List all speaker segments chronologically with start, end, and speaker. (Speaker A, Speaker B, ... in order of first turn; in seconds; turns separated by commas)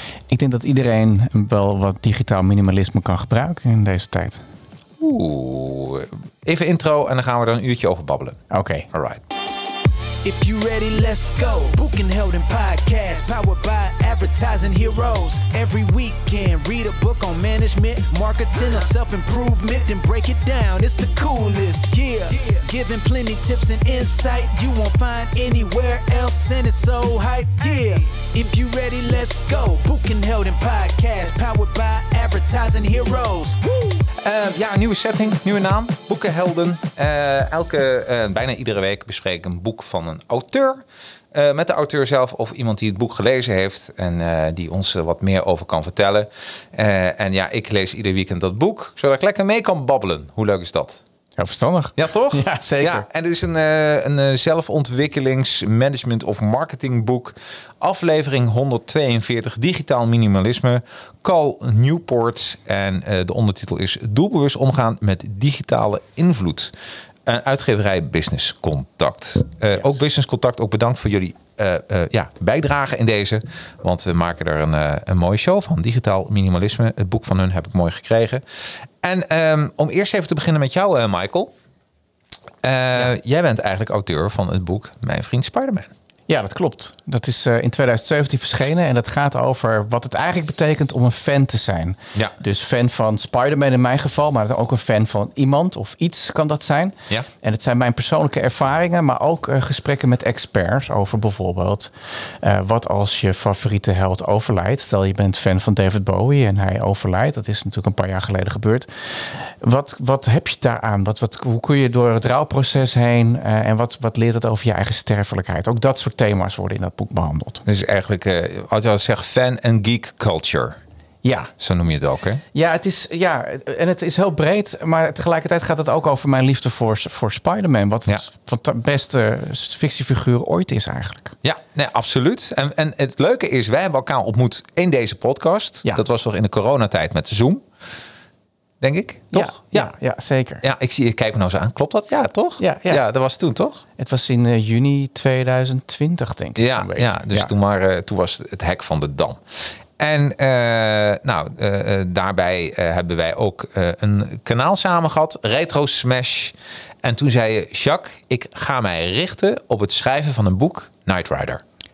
Speaker A: 0.3-4.4, Speaker B: 5.0-8.4, Speaker A: 8.5-8.9, Speaker B: 8.9-9.2, Speaker C: 10.2-34.0, Speaker B: 34.2-51.0, Speaker A: 51.4-53.1, Speaker B: 52.0-66.7, Speaker B: 67.3-81.5, Speaker B: 82.6-85.9, Speaker A: 86.3-117.6, Speaker B: 117.7-120.8, Speaker A: 121.2-121.5, Speaker B: 121.6-122.4, Speaker A: 122.5-131.4, Speaker B: 131.4-137.7, Speaker B: 138.8-139.9, Speaker A: 139.3-140.6, Speaker B: 140.6-143.8, Speaker A: 142.6-143.0, Speaker A: 144.0-147.5, Speaker B: 146.6-161.6